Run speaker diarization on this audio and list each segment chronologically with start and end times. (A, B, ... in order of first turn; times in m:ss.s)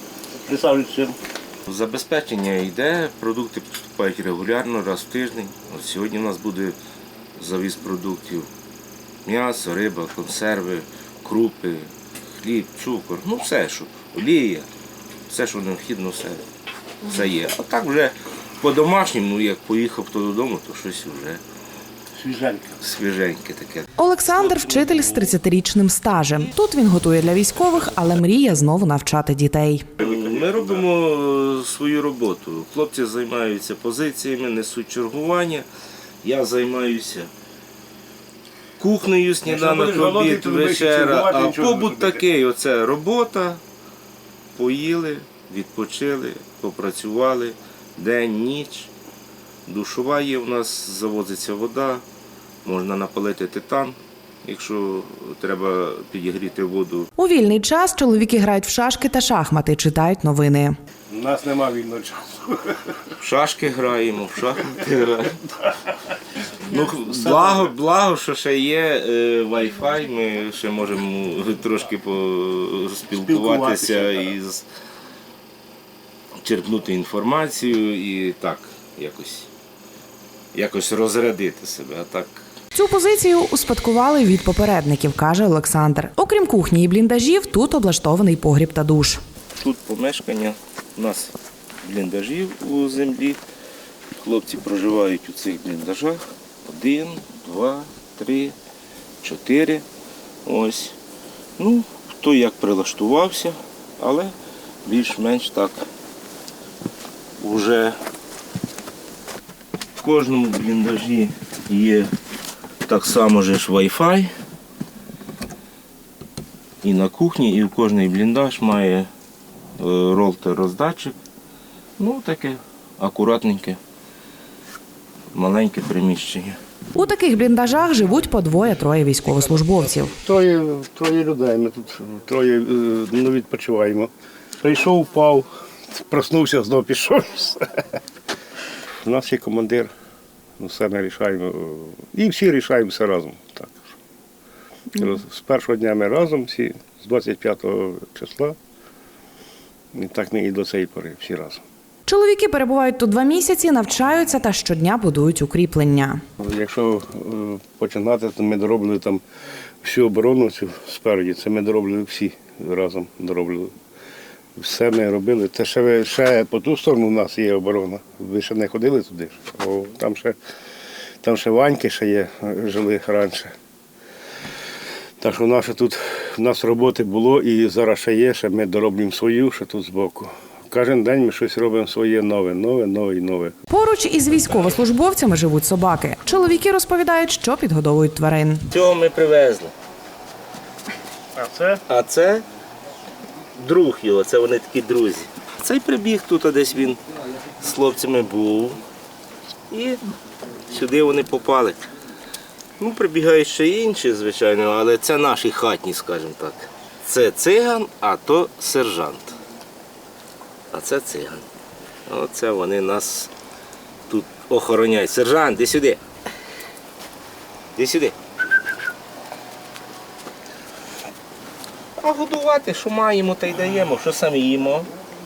0:00.4-0:01.2 A
0:01.7-0:06.8 B
0:07.4-0:08.5 B
0:09.3-0:11.9 B
0:12.4-0:14.7 B
0:15.3-0:16.4 B
0:17.0-0:21.4 B
0:22.2-0:22.8 A
0:22.8-0:25.4 B
0:24.0-0:29.9 C
0:30.0-0:30.6 A
0:30.0-0:35.7 B
0:36.2-0:37.3 B
0:38.8-0:43.6 B
0:39.4-0:42.2 A
0:44.6-0:48.9 B
0:49.7-0:52.0 B
0:52.6-0:57.1 B
0:57.2-1:00.7 C
1:01.1-1:03.0 A
1:03.2-1:05.4 B
1:06.7-1:14.7 B
1:06.7-1:07.7 A
1:13.2-1:14.4 A
1:16.4-1:19.5 B
1:20.5-1:22.4 B
1:22.7-1:29.2 C
1:29.6-1:33.4 B
1:34.2-1:38.6 B
1:39.2-1:39.9 B
1:40.4-1:41.0 B
1:41.6-1:45.8 B
1:47.4-1:48.0 B
1:50.0-1:52.1 B
1:52.8-1:54.3 B
1:56.8-1:59.1 B
1:59.8-2:01.2 B
2:02.0-2:03.8 B
2:05.3-2:06.6 B
2:07.0-2:10.2 C
2:10.2-2:14.1 A
2:14.6-2:15.5 A
2:16.1-2:17.6 A
2:19.0-2:19.9 A
2:20.6-2:23.9 A
2:25.0-2:28.6 A
2:29.9-2:31.6 A
2:32.1-2:36.2 C
2:36.4-2:39.2 A
2:39.8-2:43.7 A
2:44.6-2:50.4 A
2:51.2-2:53.5 A
2:55.2-3:03.5 A
3:03.7-3:08.7 C
3:08.7-3:09.7 B
3:11.4-3:11.8 A
3:11.9-3:12.4 B
3:13.6-3:17.0 B
3:17.6-3:18.8 B
3:19.7-3:20.1 B
3:20.7-3:21.9 B
3:22.8-3:29.4 B
3:30.7-3:31.4 B
3:32.1-3:33.3 B
3:34.1-3:36.0 B
3:37.8-3:38.2 B
3:42.0-3:44.9 B